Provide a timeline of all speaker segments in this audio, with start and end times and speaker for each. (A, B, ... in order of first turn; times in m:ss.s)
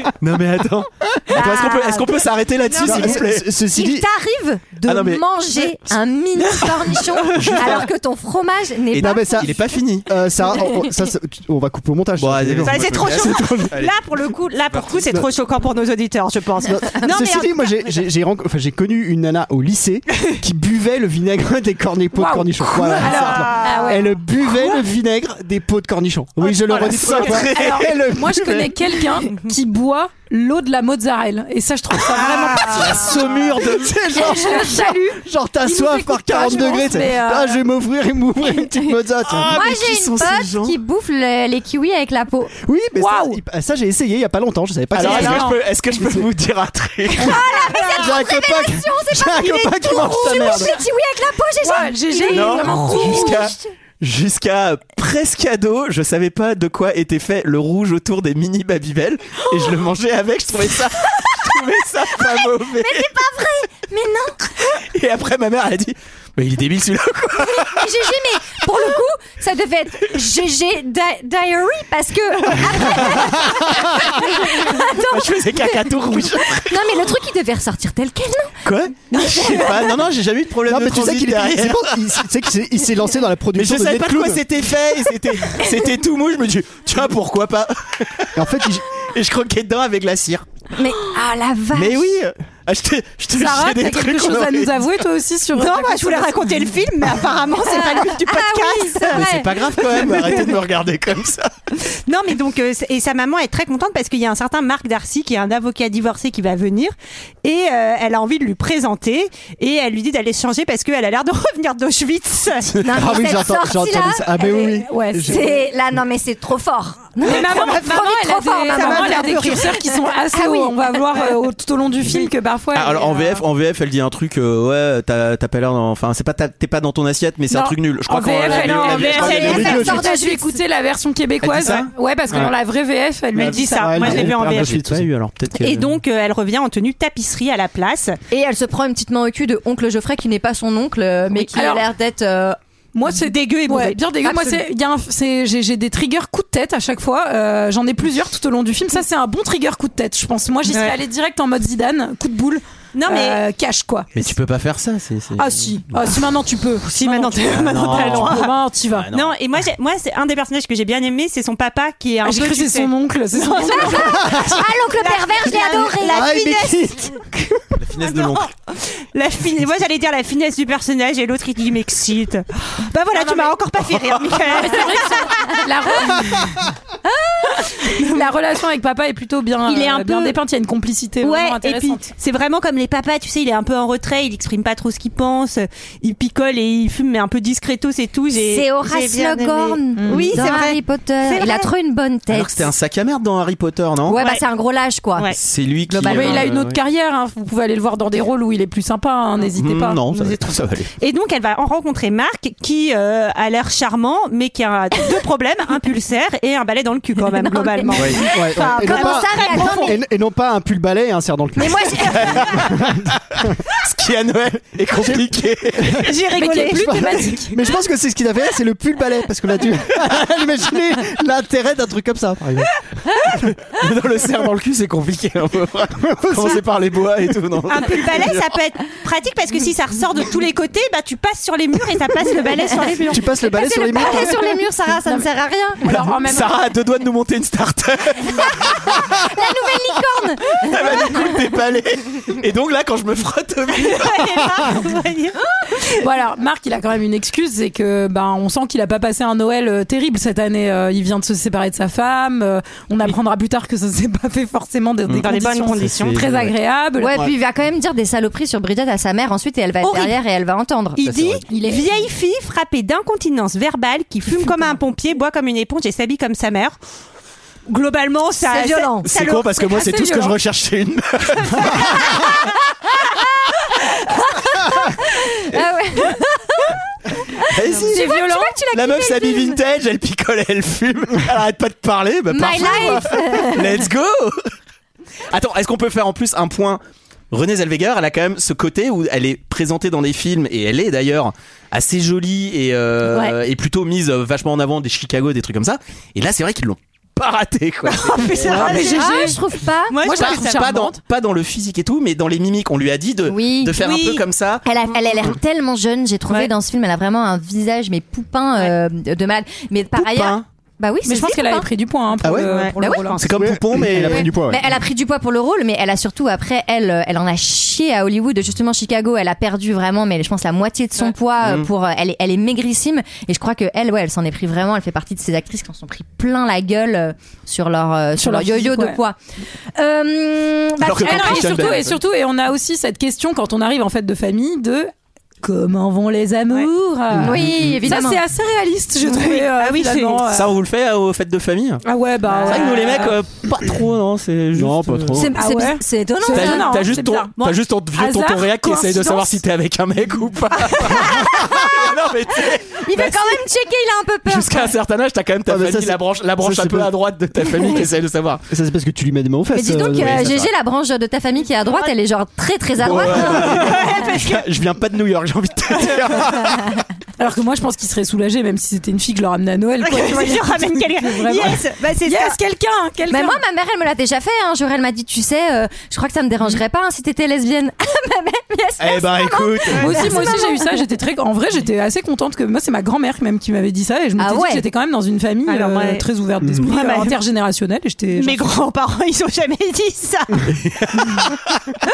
0:00.2-0:03.6 A
0:01.3-0:02.2 B
0:02.7-0:03.0 C
0:02.8-0:04.1 D
0:02.9-0:09.6 B
0:04.8-0:05.2 A
0:07.3-0:07.9 A
0:08.9-0:10.1 A
0:09.0-0:13.4 D
0:10.5-0:10.9 B
0:12.2-0:14.0 A
0:12.6-0:18.0 C
0:14.7-0:15.2 A
0:16.6-0:27.5 D
0:22.2-0:24.8 E
0:23.0-0:24.0 C
0:26.6-0:28.8 A
0:26.7-0:27.0 C
0:27.1-0:33.1 E
0:32.2-0:34.3 A
0:33.7-0:39.6 D
0:34.1-0:37.6 E
0:39.3-0:40.8 A
0:39.4-0:42.6 B
0:42.6-0:46.3 D
0:43.0-0:43.4 E
0:44.9-0:48.6 A
0:45.0-0:45.6 E
0:47.2-0:53.7 B
0:47.8-0:50.7 D
0:49.2-0:50.7 A
0:51.6-0:53.5 E
0:52.3-1:03.2 A
1:02.3-1:04.8 B
1:04.8-1:08.0 A
1:07.4-1:20.0 B
1:12.6-1:13.6 A
1:14.4-1:17.1 A
1:18.6-1:22.1 A
1:20.7-1:24.4 D
1:23.5-1:30.4 A
1:28.4-1:28.8 D
1:30.8-1:32.1 B
1:31.7-1:35.0 A
1:33.3-1:36.7 E
1:35.6-1:39.3 C
1:37.6-1:40.4 B
1:39.1-1:41.5 A
1:39.9-1:40.4 C
1:42.1-1:46.9 C
1:47.4-1:52.7 C
1:52.8-1:55.4 D
1:52.8-2:01.3 B
1:54.8-1:55.6 E
1:57.2-2:03.4 E
1:57.2-1:58.0 C
1:58.7-1:59.7 C
2:02.7-2:09.9 A
2:07.5-2:14.1 E
2:08.4-2:09.9 C
2:09.1-2:10.6 B
2:09.2-2:10.1 D
2:11.4-2:12.5 A
2:13.4-2:14.8 C
2:13.4-2:15.1 D
2:14.0-2:15.9 A
2:15.6-2:18.2 C
2:18.3-2:22.6 B
2:21.4-2:21.8 E
2:23.0-2:34.3 E
2:23.2-2:24.0 C
2:24.2-2:24.6 B
2:30.7-2:31.0 C
2:32.9-2:33.4 C
2:34.1-2:36.1 A
2:35.4-2:39.1 E
2:36.9-2:38.5 C
2:37.5-2:39.4 A
2:39.1-2:46.8 C
2:42.2-2:44.2 E
2:43.6-2:47.1 B
2:44.2-2:44.5 D
2:46.0-2:47.2 D
2:47.8-2:48.5 A
2:48.0-2:55.4 C
2:53.1-2:53.6 E
2:54.5-2:56.6 E
2:57.1-2:57.6 B
2:57.8-3:02.0 E
2:59.7-3:00.4 C
3:01.2-3:11.7 C
3:08.3-3:12.7 B
3:10.0-3:10.4 E
3:12.3-3:14.2 A
3:14.1-3:15.3 B
3:14.2-3:14.4 C
3:15.4-3:16.8 A
3:15.9-3:20.0 E
3:19.5-3:20.9 A
3:20.1-3:30.0 C
3:27.3-3:30.0 B
3:28.0-3:33.2 D
3:31.6-3:32.7 B
3:32.1-3:36.1 A
3:34.9-3:35.3 D
3:35.8-3:42.7 D
3:36.0-3:37.3 C
3:36.3-3:37.6 E
3:43.3-3:48.5 A
3:46.0-3:46.6 D
3:47.7-3:53.3 C
3:53.1-3:54.6 D
3:53.4-3:55.9 B
3:55.8-3:56.6 E
3:56.1-3:59.3 A
3:59.3-4:01.4 B
4:00.6-4:04.6 A
4:03.8-4:05.4 C
4:06.0-4:17.2 E
4:15.1-4:16.5 A
4:15.2-4:16.2 C
4:17.0-4:22.1 B
4:19.8-4:20.2 C
4:21.0-4:26.8 C
4:21.0-4:21.4 A
4:27.7-4:29.6 C
4:28.4-4:29.1 B
4:29.0-4:32.2 A
4:29.7-4:30.4 E
4:33.2-4:39.6 B
4:37.5-4:44.4 A
4:37.9-4:38.6 E
4:42.3-4:43.9 B
4:45.3-4:46.8 A
4:47.3-4:58.8 A
4:53.1-4:53.4 B
4:57.9-4:59.3 C
4:58.5-4:59.4 E
4:58.5-5:00.1 B
4:59.9-5:00.7 C
5:00.0-5:01.0 E
5:00.2-5:04.6 A
5:03.3-5:03.8 B
5:03.8-5:04.2 C
5:04.6-5:11.7 B
5:10.0-5:10.4 A
5:11.1-5:13.3 E
5:12.2-5:12.5 D
5:12.5-5:12.8 C
5:12.8-5:13.3 B
5:13.2-5:14.4 A
5:13.3-5:14.7 D
5:14.1-5:29.2 B
5:21.4-5:21.7 A
5:28.2-5:29.0 E
5:29.8-5:31.7 B
5:30.8-5:32.0 A
5:31.0-5:34.9 E
5:31.3-5:31.6 C
5:35.4-5:40.5 E
5:37.2-5:38.2 B
5:39.0-5:40.2 C
5:40.3-5:41.8 A
5:41.8-5:43.1 E
5:42.4-5:45.3 A
5:42.5-5:42.8 C
5:44.6-5:45.3 D
5:45.2-5:46.9 B
5:45.4-5:47.3 E
5:46.3-5:53.4 A
5:47.9-5:49.4 E
5:51.2-5:51.9 B
5:52.8-5:54.7 B
5:54.2-5:58.4 A
5:55.5-5:56.9 D
5:58.5-6:00.3 D
5:59.5-6:04.1 B
5:59.9-6:00.5 A
6:02.8-6:06.8 A
6:03.3-6:04.4 C
6:07.2-6:13.4 E
6:09.8-6:12.4 C
6:13.1-6:20.8 B
6:18.8-6:20.2 A
6:19.8-6:28.5 E
6:24.2-6:24.6 B
6:25.5-6:26.1 C
6:26.6-6:27.2 C
6:28.2-6:31.3 C
6:30.6-6:31.4 A